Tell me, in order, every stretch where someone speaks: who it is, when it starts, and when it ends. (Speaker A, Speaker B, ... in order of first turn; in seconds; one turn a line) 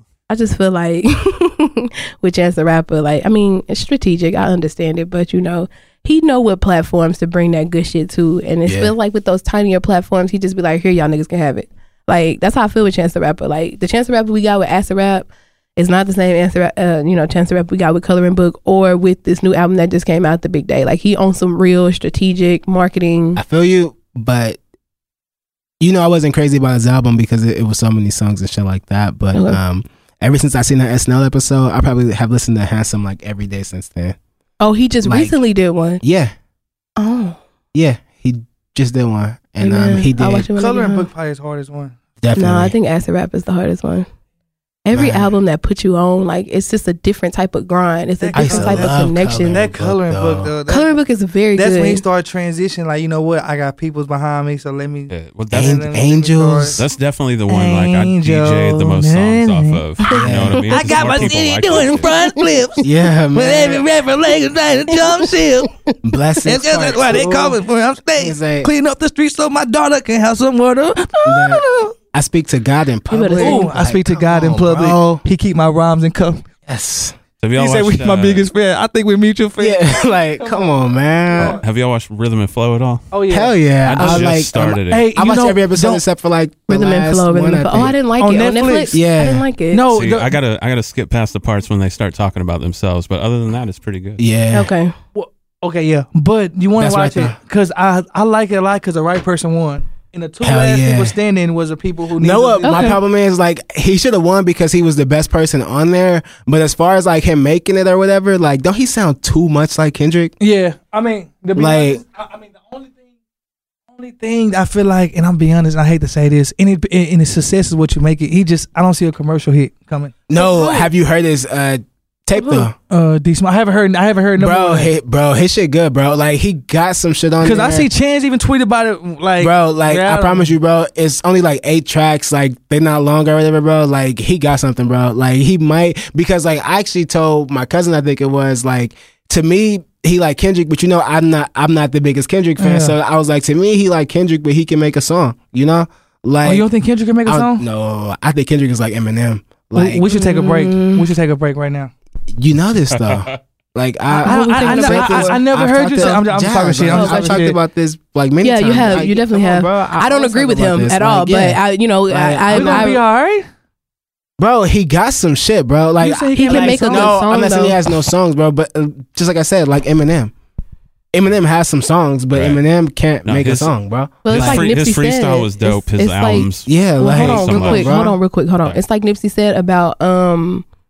Speaker A: 0.3-23.4
Speaker B: 8.7-8.9
Speaker B: 23.4-24.6
Speaker B: 25.8-34.2
Speaker A: 29.3-29.6
Speaker A: 34.6-36.0
Speaker B: 35.0-35.4
Speaker B: 36.0-36.3
Speaker A: 37.0-37.4
Speaker B: 37.7-40.5
Speaker A: 39.6-41.1
Speaker C: 40.5-42.0
Speaker B: 42.2-42.7
Speaker A: 42.3-44.0
Speaker A: 44.9-49.6
Speaker B: 44.9-45.3
Speaker C: 48.2-50.9
Speaker B: 48.3-50.5
Speaker A: 50.7-52.0
Speaker C: 51.5-56.8
Speaker D: 55.1-55.9
Speaker B: 55.5-56.8
Speaker D: 56.8-62.1
Speaker C: 57.5-59.9
Speaker A: 60.1-60.6
Speaker B: 60.1-61.0
Speaker C: 60.6-65.7
Speaker A: 61.9-62.5
Speaker B: 62.8-63.9
Speaker A: 64.9-65.3
Speaker B: 66.0-67.6
Speaker C: 66.4-71.9
Speaker B: 68.2-68.7
Speaker B: 71.2-75.2
Speaker A: 73.1-73.7
Speaker C: 73.3-76.5
Speaker B: 76.7-77.2
Speaker D: 77.4-78.5
Speaker C: 77.5-80.7
Speaker B: 79.6-81.6
Speaker C: 81.3-81.6
Speaker D: 81.6-83.1
Speaker C: 83.1-84.3
Speaker B: 83.3-88.0
Speaker D: 83.8-85.1
Speaker C: 84.9-86.0
Speaker A: 86.7-89.8
Speaker C: 88.2-89.0
Speaker B: 88.9-89.4
Speaker C: 89.7-90.4
Speaker D: 89.9-94.2
Speaker B: 94.2-94.7
Speaker A: 94.5-94.9
Speaker C: 95.1-102.9
Speaker B: 96.8-97.3
Speaker B: 100.4-101.1
Speaker B: 102.2-110.3
Speaker A: 102.6-103.0
Speaker C: 110.4-113.0
Speaker B: 111.5-112.0
Speaker C: 113.9-120.2
Speaker B: 120.3-122.7
Speaker A: 120.3-120.9
Speaker A: 122.3-122.7
Speaker C: 122.9-124.9
Speaker B: 124.4-127.9
Speaker C: 127.4-130.5
Speaker B: 129.4-146.7
Speaker C: 142.6-142.9
Speaker C: 146.4-147.6
Speaker B: 147.2-150.1
Speaker C: 149.7-151.9
Speaker A: 150.1-151.1
Speaker B: 152.3-163.0
Speaker D: 152.9-153.3
Speaker A: 154.1-155.4
Speaker C: 154.2-157.5
Speaker A: 156.9-157.5
Speaker A: 158.4-163.0
Speaker C: 162.5-163.5
Speaker B: 164.4-170.3
Speaker C: 166.0-167.2
Speaker A: 166.3-167.8
Speaker B: 171.1-174.7
Speaker D: 172.3-172.6
Speaker D: 173.2-173.7
Speaker A: 174.2-180.6
Speaker D: 174.3-178.1
Speaker B: 176.7-178.1